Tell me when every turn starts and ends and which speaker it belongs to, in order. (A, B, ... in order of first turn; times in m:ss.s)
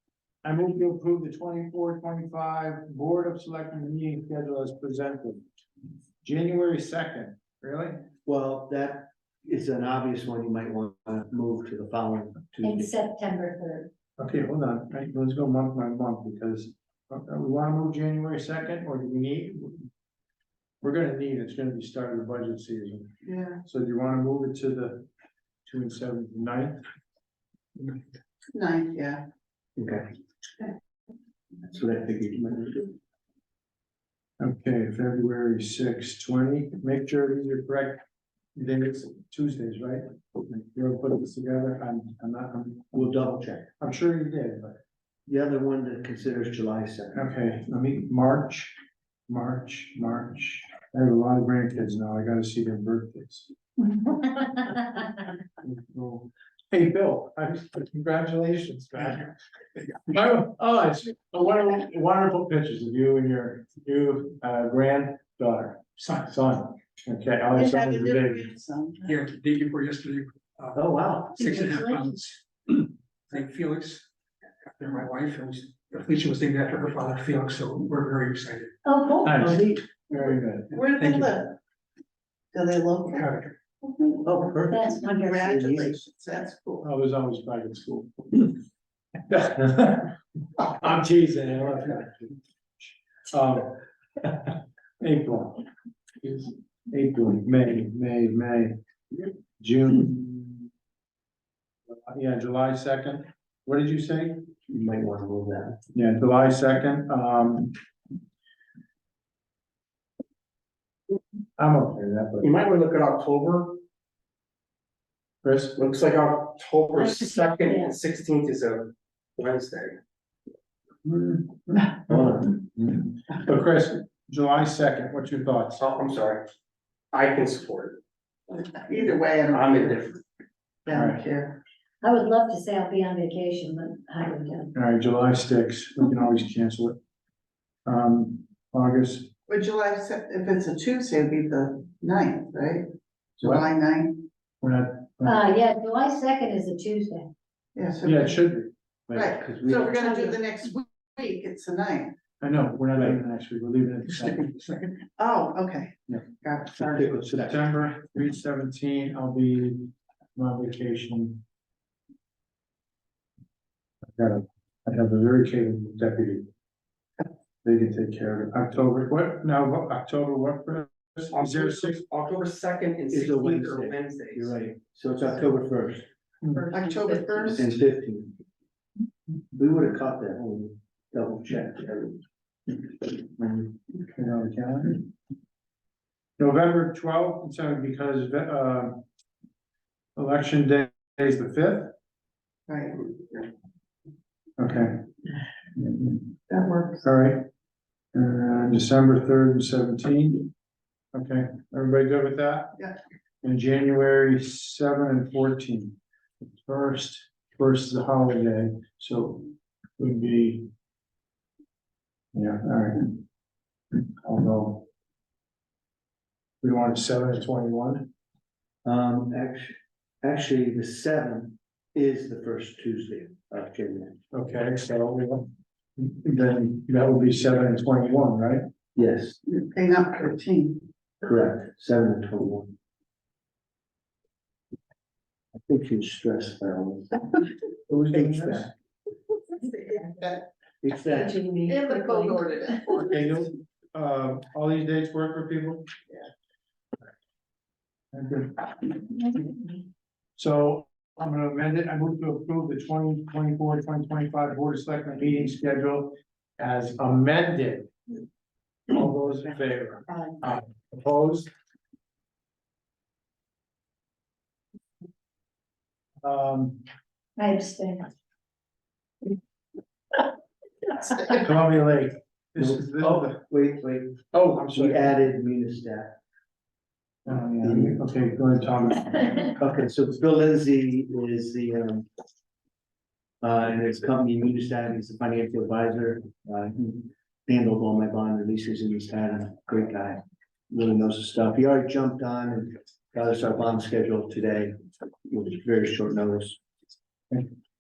0:00.4-0:05.4 A
0:06.2-0:08.0 A
0:08.3-0:12.9 B
0:12.6-0:13.9 C
0:14.2-0:19.9 A
0:20.8-0:25.1 A
0:23.2-0:23.6 D
0:25.7-0:26.8 A
0:28.5-0:29.2 D
0:29.8-0:30.1 B
0:31.6-0:33.0 B
0:34.4-0:38.0 A
0:38.6-0:43.1 A
0:42.9-0:43.7 B
0:43.8-0:44.8 A
0:45.3-0:47.2 B
0:47.2-0:48.8 A
0:49.3-0:54.9 A
0:55.6-0:59.3 A
1:00.1-1:08.5 A
1:06.0-1:06.3 E
1:07.5-1:09.2 D
1:09.0-1:10.8 E
1:10.8-1:11.5 B
1:11.4-1:14.0 E
1:11.4-1:12.0 C
1:14.8-1:18.7 E
1:18.8-1:19.4 C
1:19.2-1:20.8 A
1:19.4-1:19.8 B
1:20.7-1:21.6 D
1:21.0-1:21.4 E
1:22.5-1:24.2 D
1:23.1-1:23.5 E
1:24.2-1:26.0 B
1:24.7-1:25.5 C
1:25.0-1:26.8 D
1:26.8-1:28.6 A
1:29.3-1:35.7 A
1:36.2-1:38.8 A
1:39.6-1:40.6 A
1:41.9-1:44.5 A
1:44.7-1:45.8 B
1:45.9-1:47.8 A
1:51.6-1:52.5 A
1:52.4-1:53.8 F
1:55.4-1:55.8 A
1:55.8-2:00.0 F
1:57.0-1:57.9 C
2:01.0-2:05.8 A
2:02.1-2:02.5 B
2:05.8-2:06.5 F
2:07.1-2:08.0 F
2:08.5-2:10.0 D
2:09.5-2:10.2 F
2:10.9-2:11.6 D
2:10.9-2:11.2 A
2:12.0-2:14.7 C
2:14.7-2:17.0 A
2:17.9-2:19.3 A
2:19.5-2:22.9 D
2:23.4-2:24.2 D
2:24.6-2:25.4 A
2:25.2-2:27.3 C
2:27.8-2:28.4 D
2:28.0-2:28.7 A
2:29.1-2:30.0 B
2:29.1-2:32.1 D
2:30.0-2:30.3 C
2:32.4-2:34.5 A
2:35.2-2:37.1 D
2:36.9-2:41.4 A
2:37.0-2:37.5 B
2:44.1-2:46.5 A
2:47.6-2:52.0 A
2:51.3-2:54.5 F
2:53.1-2:56.1 B
2:56.6-2:57.4 F
2:56.7-2:57.6 D
2:57.5-2:58.4 B
2:59.5-3:02.2 B
3:03.4-3:05.0 A
3:06.4-3:09.0 A
3:10.2-3:11.9 A
3:12.7-3:13.5 D
3:14.6-3:15.1 A
3:15.8-3:16.3 A
3:16.5-3:17.0 D
3:17.0-3:17.4 A
3:18.1-3:20.5 A
3:21.1-3:22.8 A
3:23.4-3:26.0 A
3:26.6-3:30.7 A
3:32.3-3:33.2 A
3:34.0-3:34.9 A
3:36.6-3:38.1 A
3:38.8-3:44.2 B
3:44.3-3:48.6 A
3:49.0-3:49.4 B
3:49.5-3:50.8 D
3:51.2-3:52.7 B
3:55.6-3:57.4 B
3:57.9-3:58.7 A
3:58.1-3:58.7 B
3:59.6-4:00.4 D
4:00.8-4:01.4 B
4:01.1-4:02.4 C
4:01.7-4:03.1 D
4:02.9-4:05.9 A
4:08.1-4:09.0 A
4:10.4-4:17.9 A
4:18.9-4:21.5 A
4:26.2-4:26.8 A
4:27.4-4:28.1 C
4:31.2-4:33.4 A
4:32.6-4:36.2 B
4:34.3-4:35.2 A
4:37.3-4:39.6 A
4:37.6-4:38.0 B
4:39.6-4:42.1 B
4:43.4-4:54.8 B
4:55.3-4:56.6 B